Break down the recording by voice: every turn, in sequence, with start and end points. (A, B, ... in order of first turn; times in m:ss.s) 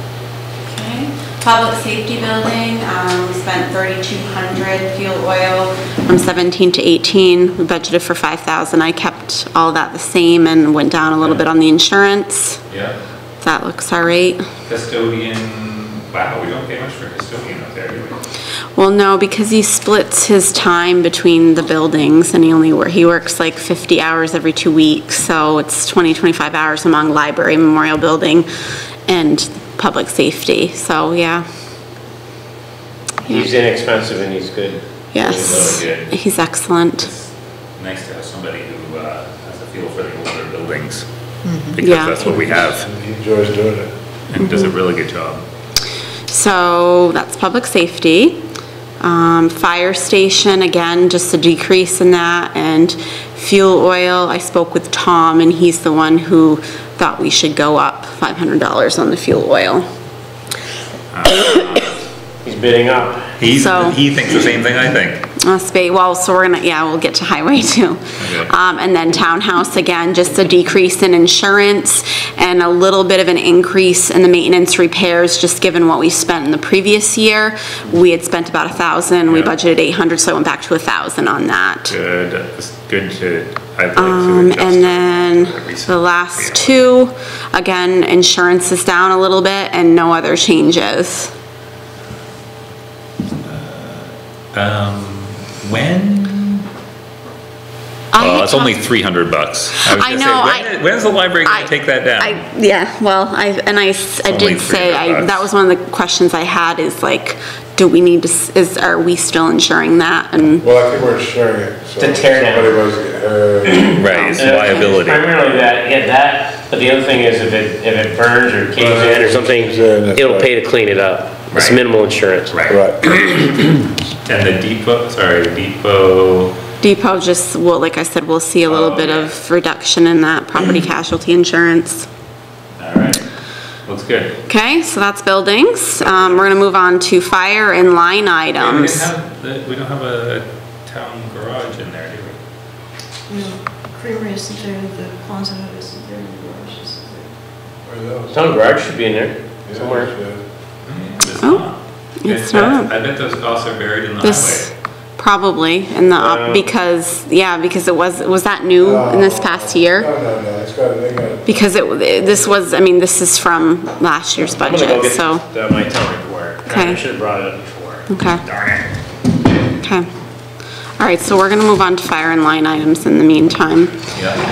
0:00.7-0:12.6 A
0:12.7-0:13.0 B
0:13.4-0:14.4 A
0:14.7-0:18.2 B
0:18.8-0:28.5 A
0:29.1-0:31.4 A
0:33.3-0:35.8 C
0:35.1-0:37.1 A
0:35.6-0:36.2 B
0:37.0-0:42.9 B
0:41.8-0:42.2 A
0:42.2-0:43.9 D
0:44.3-0:45.4 B
0:46.3-0:48.4 A
0:49.0-0:59.8 A
1:01.1-1:02.0 B
1:02.4-1:03.4 C
1:03.4-1:05.3 B
1:03.5-1:04.0 A
1:05.4-1:21.9 A
1:08.2-1:08.5 B
1:19.3-1:19.5 B
1:21.9-1:26.8 B
1:24.0-1:31.3 A
1:33.4-1:36.7 B
1:38.1-1:38.8 A
1:38.2-1:42.4 B
1:39.8-1:50.7 A
1:44.2-1:45.5 B
1:50.6-1:54.0 D
1:52.0-1:52.8 C
1:53.7-2:02.5 C
1:54.0-1:55.3 B
1:54.0-1:54.9 A
1:58.8-2:00.5 D
2:01.5-2:01.8 B
2:02.5-2:02.8 B
2:02.7-2:03.4 D
2:04.2-2:06.6 B
2:06.8-2:12.1 A
2:08.7-2:09.4 B
2:12.8-2:13.2 B
2:13.9-2:14.4 B
2:14.5-2:19.1 A
2:16.0-2:16.5 B
2:18.6-2:22.4 B
2:23.3-2:27.3 E
2:27.8-2:28.6 D
2:28.3-2:30.1 C
2:29.7-2:30.4 D
2:30.8-2:34.7 B
2:32.2-2:32.9 A
2:34.2-2:40.1 A
2:36.1-2:36.7 C
2:38.8-2:42.4 D
2:41.5-2:45.4 A
2:44.4-2:48.8 C
2:46.7-2:47.0 A
2:48.1-2:48.4 A
2:49.8-2:50.1 A
2:51.0-2:54.0 A
2:54.1-2:54.4 B